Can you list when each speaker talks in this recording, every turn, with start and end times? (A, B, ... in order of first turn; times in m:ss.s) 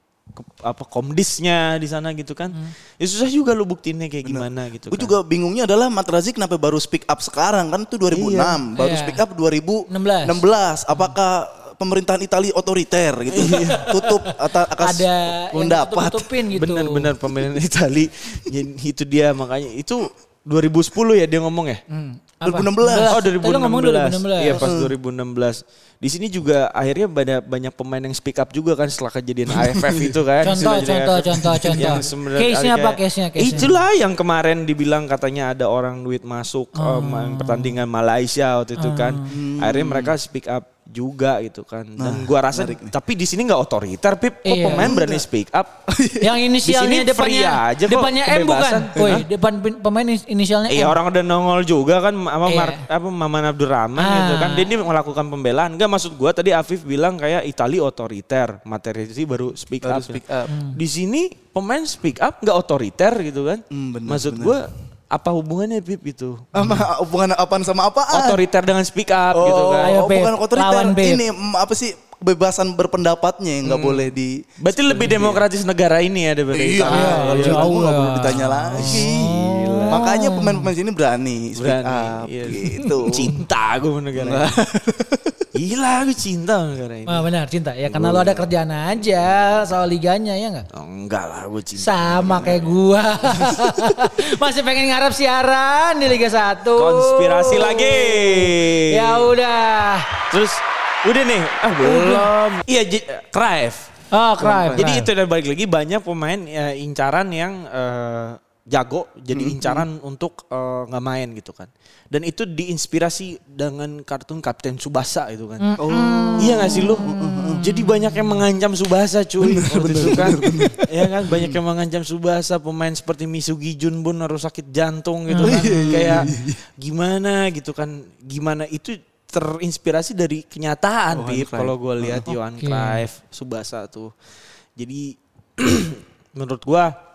0:00.4-0:05.2 A
0:04.2-0:16.3 B
0:08.1-0:08.6 A
0:08.8-0:09.2 C
0:09.9-0:10.4 C
0:13.4-0:17.1 C
0:13.4-0:13.8 A
0:16.5-0:21.8 A
0:21.9-0:24.7 C
0:22.4-0:23.2 B
0:23.1-0:45.7 A
0:24.5-0:24.9 B
0:29.5-0:32.1 B
0:30.4-0:33.7 C
0:36.8-0:37.8 C
0:38.8-0:39.4 C
0:39.3-0:40.1 B
0:42.0-0:42.9 B
0:44.4-0:45.0 C
0:44.7-0:45.2 B
0:45.9-0:46.3 B
0:46.2-0:51.0 C
0:46.6-0:49.2 A
0:50.7-1:06.8 A
0:52.5-0:52.8 C
0:54.0-0:54.7 C
0:59.8-1:00.5 B
1:00.5-1:00.8 C
1:03.7-1:04.6 B
1:06.5-1:08.4 B
1:08.1-1:10.0 A
1:09.3-1:15.4 B
1:09.8-1:11.2 C
1:13.6-1:17.8 A
1:16.5-1:19.4 B
1:16.9-1:20.7 C
1:18.8-1:20.1 A
1:19.9-1:23.3 B
1:21.6-1:24.6 A
1:22.7-1:23.0 C
1:24.2-1:25.4 B
1:25.5-1:27.2 A
1:27.1-1:30.7 C
1:27.9-1:28.4 B
1:30.7-1:32.8 A
1:31.8-1:40.1 C
1:36.8-1:39.3 A
1:40.3-1:55.7 A
1:41.8-1:42.3 C
1:44.1-1:45.1 C
1:44.4-1:44.9 B
1:49.3-1:49.8 B
1:55.6-1:58.4 C
1:55.8-1:57.7 B
1:56.4-2:14.1 A
1:59.4-2:01.6 B
2:05.3-2:06.3 C
2:05.4-2:06.6 B
2:11.1-2:12.3 B
2:12.6-2:13.0 C
2:14.8-2:16.9 A